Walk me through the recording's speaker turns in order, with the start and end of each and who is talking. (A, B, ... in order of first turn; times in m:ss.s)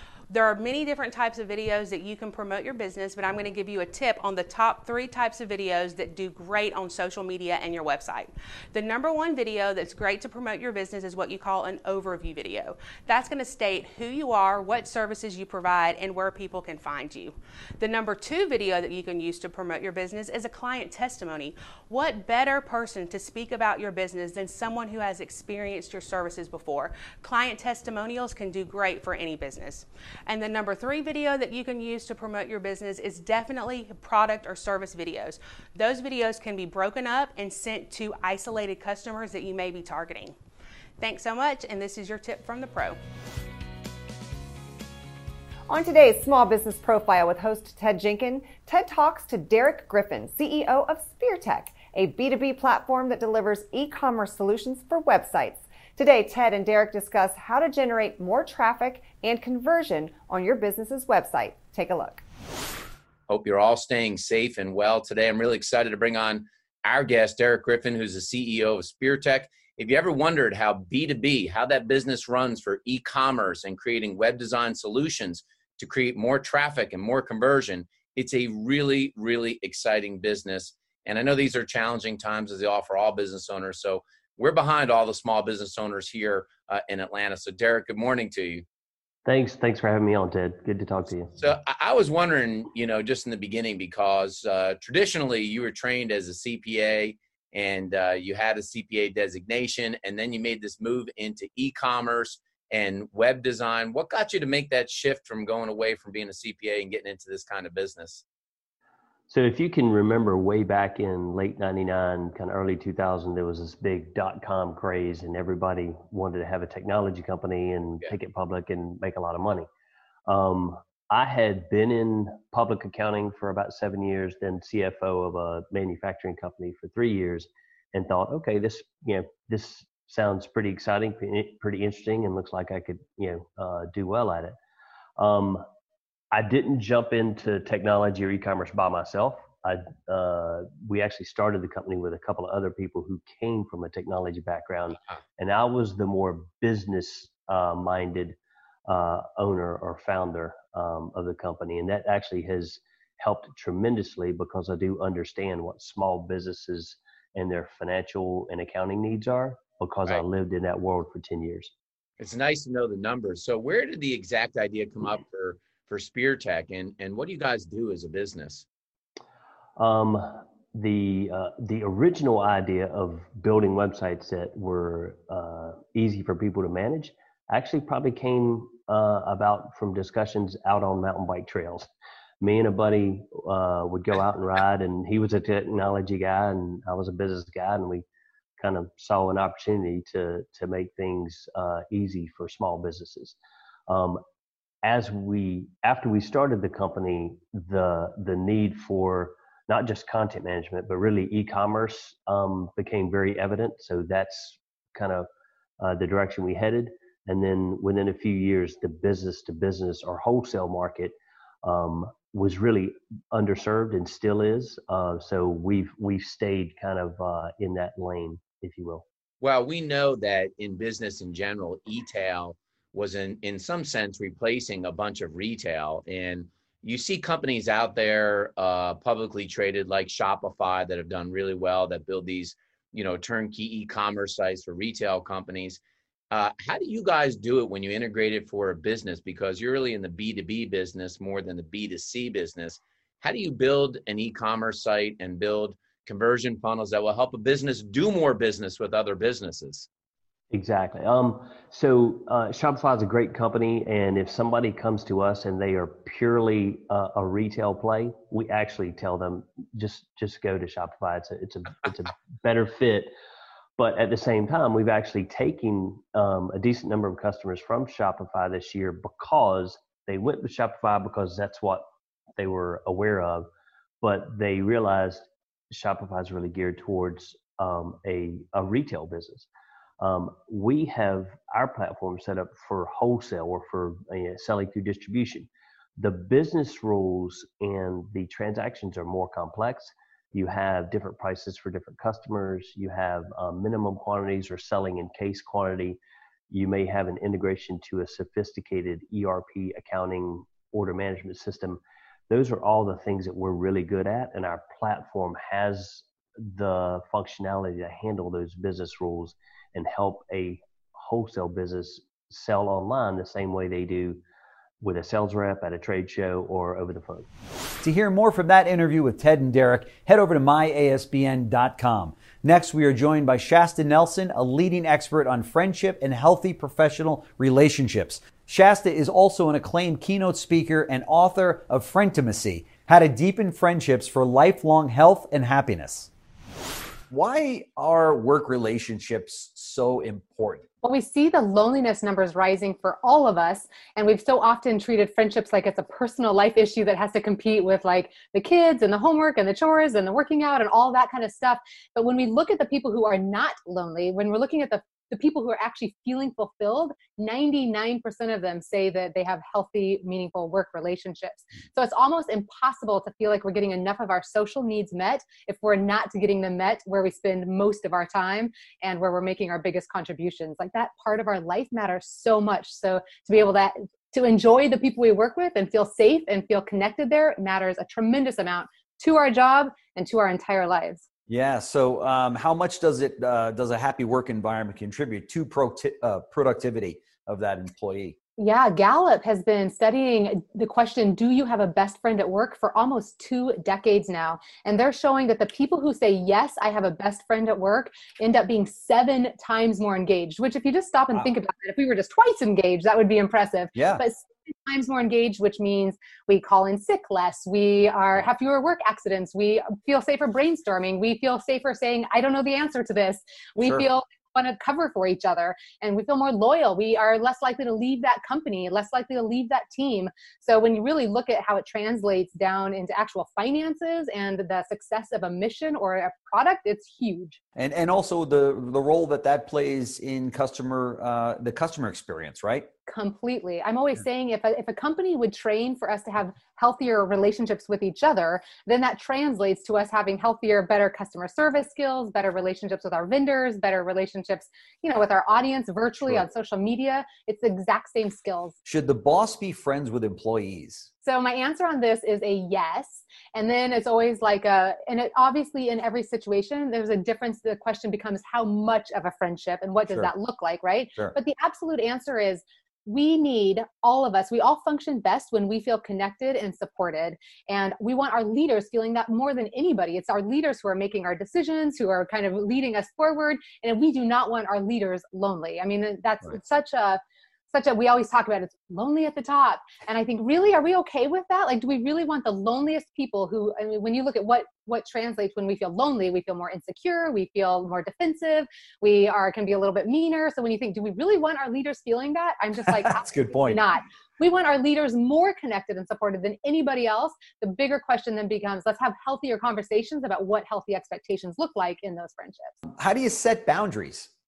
0:00.3-0:40.4 A
0:41.0-0:43.0 A
0:45.7-1:02.2 B
1:03.3-1:28.6 C
1:29.2-1:31.3 D
1:31.4-1:48.2 C
1:49.3-1:59.7 D
2:00.3-2:14.6 D
2:15.2-2:15.7 D
2:16.3-2:41.7 D
2:42.2-2:48.6 C
2:49.8-3:08.0 D
3:08.6-3:13.4 D
3:13.9-3:14.2 D
3:14.8-3:25.3 D
3:25.8-3:39.0 D
3:39.4-4:09.9 C
4:10.5-4:23.1 D
4:23.8-4:33.5 D
4:34.0-4:39.5 D
4:40.0-5:14.2 D
5:14.8-5:17.3 D
5:17.8-5:36.1 E
5:37.1-5:40.6 E
5:40.8-6:21.0 F
6:21.3-6:28.2 E
6:28.4-7:07.4 F
6:43.7-6:44.0 E
7:07.6-7:12.7 E
7:12.9-7:28.5 F
7:28.6-7:30.9 E
7:31.0-8:22.5 F
8:12.7-8:13.6 E
8:22.8-8:24.1 E